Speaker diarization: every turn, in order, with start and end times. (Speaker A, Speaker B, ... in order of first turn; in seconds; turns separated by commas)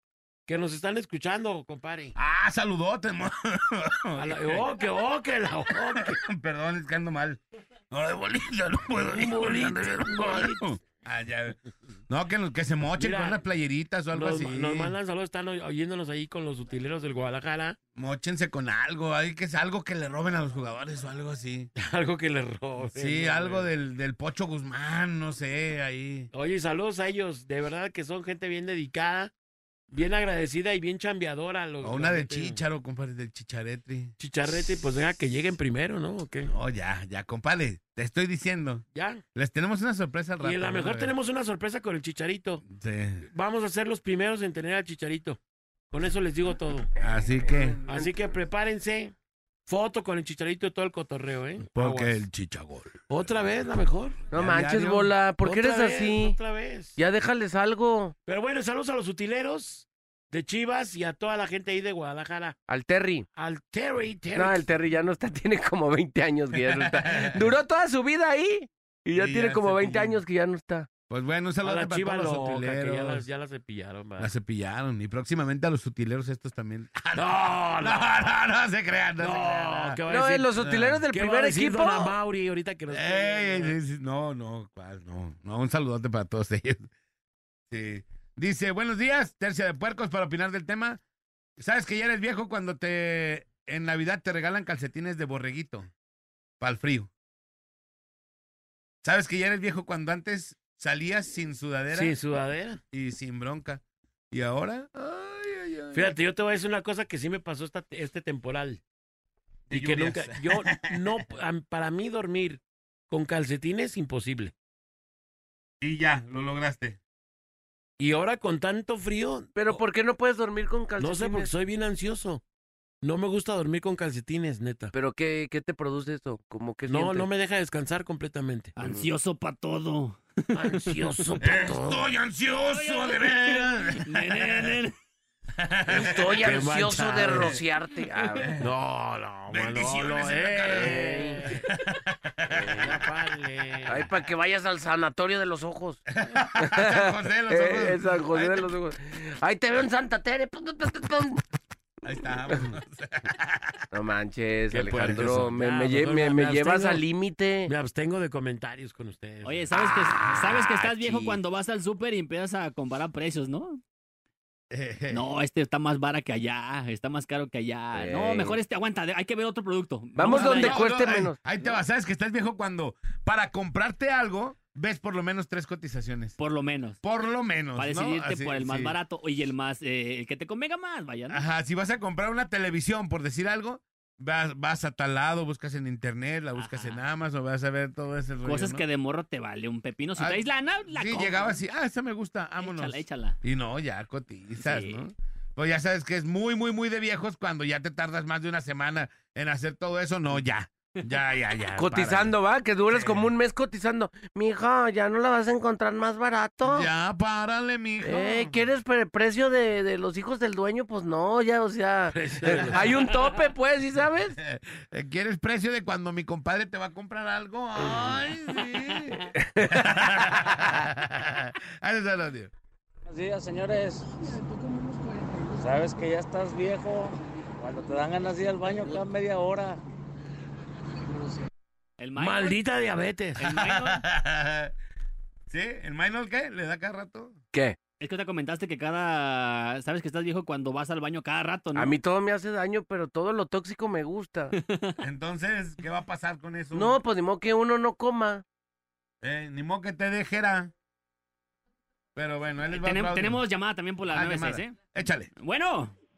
Speaker A: 0.5-2.1, Speaker B: 2.1-4.7, Speaker A: 4.2-6.2, Speaker B: 5.9-7.4, Speaker B: 7.9-11.6, Speaker A: 9.1-10.6, Speaker B: 12.1-14.9, Speaker A: 13.0-13.4, Speaker A: 14.1-17.8, Speaker B: 17.9-21.7, Speaker A: 21.8-23.7, Speaker B: 22.8-26.3, Speaker A: 26.3-29.3, Speaker A: 29.9-32.6, Speaker B: 31.8-34.1, Speaker A: 34.2-36.5, Speaker B: 36.5-38.8, Speaker A: 38.9-39.2, Speaker B: 39.3-41.1, Speaker A: 40.4-42.6, Speaker B: 42.7-43.3, Speaker A: 43.3-45.4, Speaker A: 45.9-46.9, Speaker B: 47.0-47.8, Speaker A: 47.9-49.1, Speaker A: 49.6-52.2, Speaker B: 51.7-53.0, Speaker A: 53.1-54.2, Speaker C: 54.3-56.4, Speaker B: 54.3-55.1, Speaker A: 55.4-57.0, Speaker C: 57.0-58.1, Speaker A: 58.2-62.6, Speaker C: 62.7-63.2, Speaker A: 63.4-64.7, Speaker C: 64.3-70.9, Speaker B: 66.6-67.5, Speaker B: 69.1-70.2, Speaker B: 71.1-73.2, Speaker A: 71.6-74.3, Speaker B: 74.2-80.0, Speaker A: 77.1-78.0, Speaker A: 79.2-83.8, Speaker C: 80.1-82.2, Speaker B: 80.6-81.0, Speaker B: 82.9-86.9, Speaker B: 87.7-91.0, Speaker B: 91.6-95.9, Speaker B: 96.6-97.1, Speaker B: 99.0-102.2, Speaker A: 101.9-102.8, Speaker B: 102.9-106.2, Speaker A: 105.9-108.8, Speaker A: 109.7-114.5, Speaker B: 109.7-111.0, Speaker B: 115.8-117.0, Speaker A: 118.0-119.8, Speaker C: 119.5-121.5, Speaker A: 121.0-122.4, Speaker A: 123.0-124.9, Speaker C: 124.9-127.3, Speaker A: 126.8-128.8, Speaker D: 128.8-130.2, Speaker A: 130.6-132.0, Speaker C: 130.7-131.6, Speaker B: 131.4-134.7, Speaker D: 132.7-134.9, Speaker B: 135.6-136.2, Speaker A: 135.9-137.6, Speaker C: 136.1-138.5, Speaker A: 138.6-141.6, Speaker B: 139.5-142.7, Speaker C: 140.7-141.5, Speaker C: 142.5-143.0, Speaker A: 142.6-144.1, Speaker C: 143.9-146.0, Speaker B: 146.2-148.7, Speaker C: 146.6-151.4, Speaker B: 152.0-153.8, Speaker C: 153.9-157.7, Speaker A: 154.7-157.0, Speaker A: 157.7-159.8, Speaker D: 159.4-163.8, Speaker C: 159.9-161.4, Speaker B: 164.7-165.2, Speaker D: 165.1-170.8, Speaker C: 167.9-168.6, Speaker C: 170.2-171.4, Speaker B: 170.2-176.3, Speaker D: 176.4-177.0, Speaker B: 177.0-178.9, Speaker D: 177.8-181.4, Speaker B: 181.3-188.8, Speaker D: 186.6-187.0, Speaker D: 188.4-191.6, Speaker B: 190.2-202.3, Speaker D: 192.6-193.4, Speaker D: 194.6-195.1, Speaker C: 201.7-206.9, Speaker B: 202.9-203.3, Speaker B: 206.7-208.5, Speaker C: 208.0-214.4, Speaker A: 212.1-213.2, Speaker B: 214.4-222.5, Speaker C: 219.3-220.6, Speaker E: 223.1-224.2, Speaker E: 225.5-229.8, Speaker D: 232.0-232.6, Speaker A: 232.2-233.4, Speaker D: 233.4-234.0, Speaker B: 233.4-234.7, Speaker B: 235.5-237.4, Speaker D: 238.0-241.9, Speaker C: 241.7-244.5, Speaker D: 244.5-245.0, Speaker B: 245.0-247.0, Speaker C: 246.7-248.4, Speaker B: 249.2-250.7, Speaker B: 252.1-253.4, Speaker D: 252.7-254.8, Speaker B: 254.1-255.3, Speaker D: 255.3-255.9